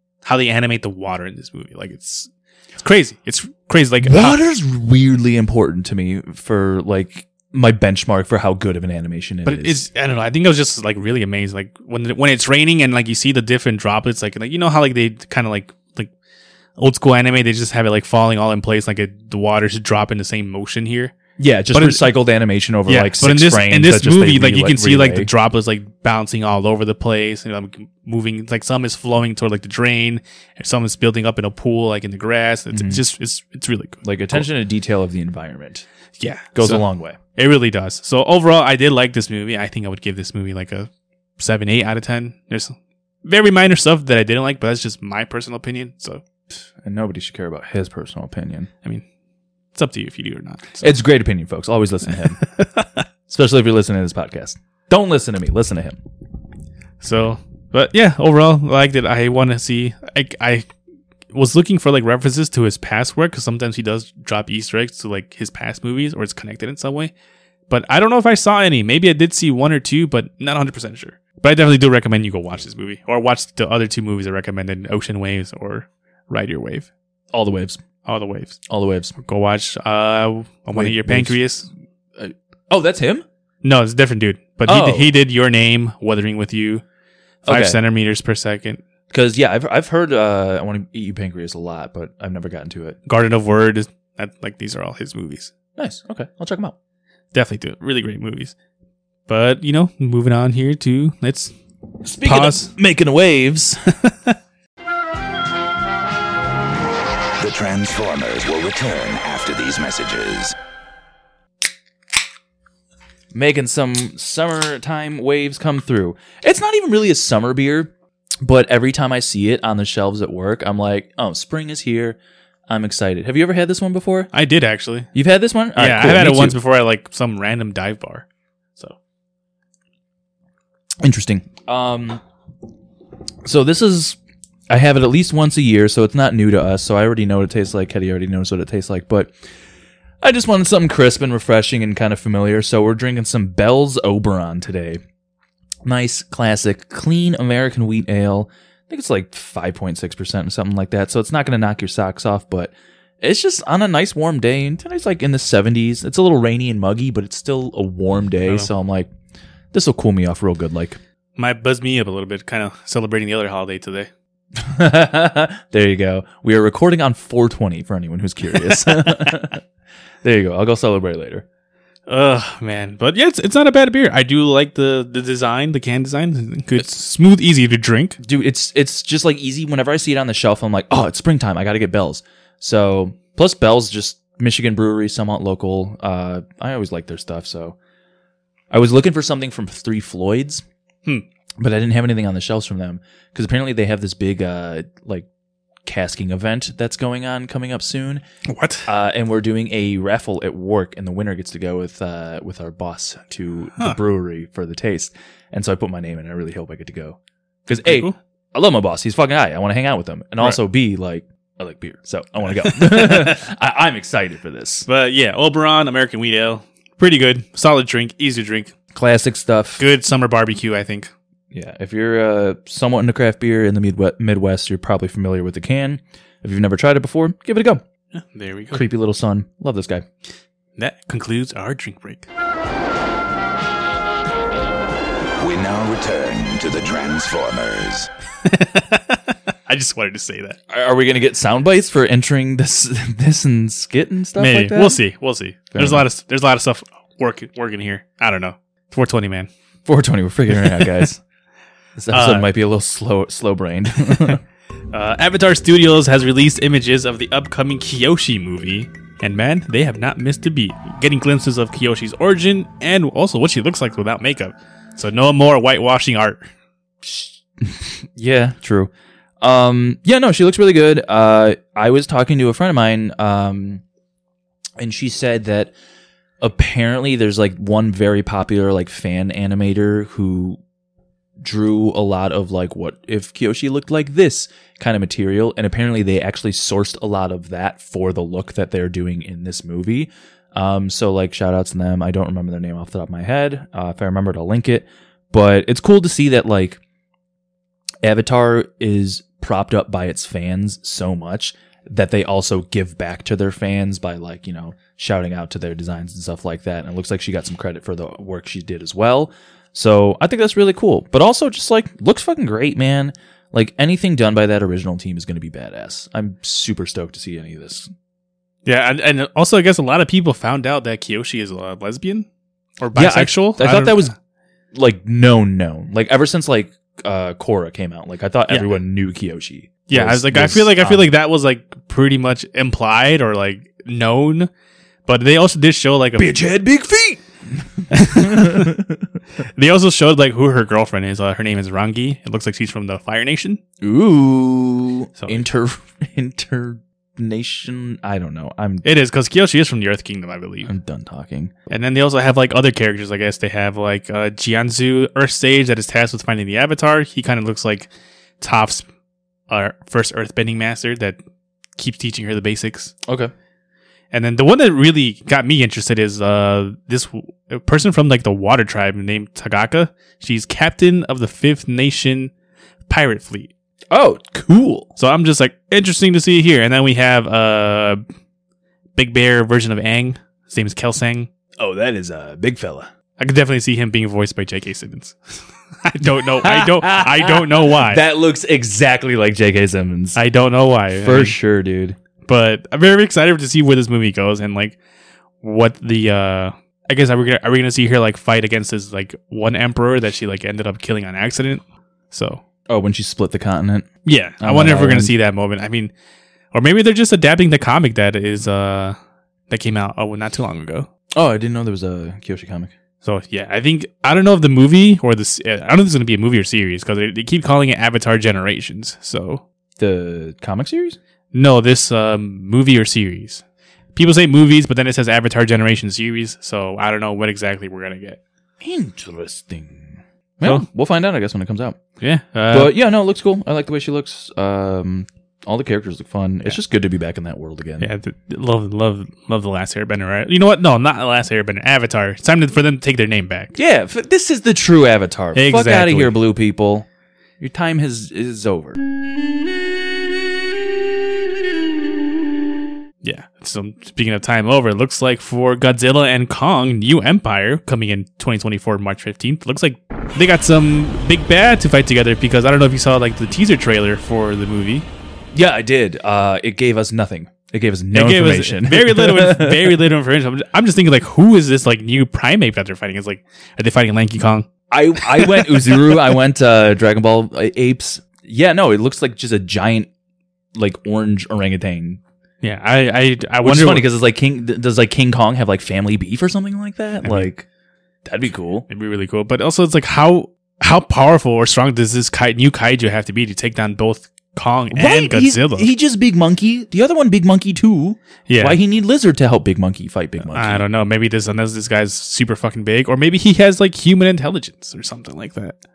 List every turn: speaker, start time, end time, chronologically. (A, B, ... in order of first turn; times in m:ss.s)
0:00.2-0:04.4 A
0:04.0-0:09.8 B
0:09.4-0:16.1 A
0:16.8-0:21.1 A
0:21.4-0:25.3 B
0:21.7-0:22.1 A
0:22.9-0:34.5 A
0:32.7-0:33.0 B
0:34.0-0:35.9 B
0:36.2-0:36.8 A
0:36.6-0:37.2 B
0:37.4-0:46.2 A
0:46.8-0:48.7 B
0:49.7-0:51.0 A
0:50.8-0:52.4 B
0:52.4-0:53.0 A
0:53.3-0:56.0 B
0:57.0-1:00.7 A
1:01.3-1:07.1 A
1:07.7-1:16.9 A
1:17.3-1:17.8 B
1:18.0-1:18.6 A
1:18.7-1:19.1 B
1:19.2-1:21.7 A
1:20.7-1:21.4 B
1:22.2-1:23.2 B
1:23.6-1:26.8 A
1:24.7-1:25.1 B
1:27.4-1:28.8 A
1:27.5-1:27.8 B
1:29.1-1:33.0 B
1:33.1-1:35.5 A
1:35.8-1:36.8 B
1:37.3-1:38.5 A
1:39.3-1:41.5 A
1:42.0-1:43.8 B
1:42.2-1:42.7 A
1:47.4-1:50.6 C
1:53.3-2:04.3 B
2:04.3-2:05.1 A
2:05.1-2:06.6 B
2:05.8-2:08.2 A
2:11.0-2:12.2 B
2:13.4-2:14.2 B
2:14.7-2:19.3 B
2:20.2-2:25.0 B
2:25.8-2:39.1 B
2:39.7-2:41.0 B
2:41.4-2:44.1 A
2:44.6-2:49.6 B
2:48.7-2:49.3 A
2:50.2-2:51.4 B
2:52.1-2:58.2 A
2:58.2-3:07.8 B
3:08.7-3:10.6 B
3:11.6-3:15.3 B
3:15.9-3:18.2 B
3:18.5-3:18.9 A
3:18.9-3:34.9 B
3:27.7-3:28.2 A
3:32.6-3:33.4 A
3:34.9-3:38.7 A
3:38.9-3:39.8 B
3:39.8-3:41.1 A
3:41.5-3:47.8 B
3:48.2-3:48.8 A
3:48.7-3:50.0 B
3:50.8-3:52.3 A
3:55.4-3:58.1 C
3:58.4-4:00.6 A
4:00.7-4:05.0 B
4:04.4-4:09.5 A
4:05.7-4:06.0 B
4:09.9-4:11.2 B
4:10.6-4:10.9 A
4:12.0-4:14.4 B
4:12.1-4:12.5 A
4:14.9-4:26.5 A
4:27.0-4:33.8 B
4:34.8-4:35.7 B
4:36.4-4:40.6 B
4:41.4-4:56.8 B
4:58.0-5:17.9 B
5:18.6-5:22.3 A
5:22.8-5:24.1 A
5:23.0-5:24.1 B
5:24.7-5:31.1 B
5:28.5-5:28.7 A
5:29.9-5:34.5 A
5:35.1-5:36.3 A
5:36.2-5:39.0 B
5:37.9-5:38.8 A
5:39.6-5:43.6 A
5:43.8-5:48.8 B
5:45.2-5:45.4 A
5:48.8-5:50.7 A
5:50.6-5:51.5 B
5:51.7-5:57.9 A
5:58.4-5:58.8 A
5:59.5-6:01.2 A
6:01.8-6:02.9 A
6:03.0-6:03.3 B
6:04.1-6:12.3 A
6:12.9-6:13.5 A
6:13.9-6:14.9 B
6:15.0-6:18.0 A
6:19.0-6:21.3 A
6:21.6-6:22.9 B
6:23.2-6:25.2 A
6:25.8-6:28.0 A
6:26.0-6:30.2 B
6:30.2-6:31.4 A
6:31.0-6:32.0 B
6:32.3-6:34.8 A
6:35.4-6:42.4 A
6:42.7-6:45.1 B
6:44.0-6:45.9 A
6:46.5-6:49.0 A
6:49.5-6:50.9 A
6:51.1-6:52.7 B
6:53.0-6:59.4 A
6:59.8-7:01.0 B
7:01.3-7:03.4 A
7:04.0-7:08.2 A
7:08.6-7:11.8 B
7:12.0-7:12.8 A
7:12.5-7:17.9 B
7:17.8-7:23.6 A
7:23.6-7:26.9 B
7:25.3-7:26.2 A
7:27.4-7:28.8 B
7:33.0-7:44.9 A
7:45.3-7:49.8 B
7:47.9-7:54.5 A
7:54.7-7:59.9 B
7:55.0-7:55.8 A
8:00.6-8:02.0 B
8:02.4-8:03.9 A
8:03.4-8:07.5 B
8:07.0-8:07.3 A
8:08.0-8:08.7 B
8:08.7-8:15.7 A
8:14.7-8:20.6 B
8:18.3-8:18.6 A
8:20.3-8:25.6 A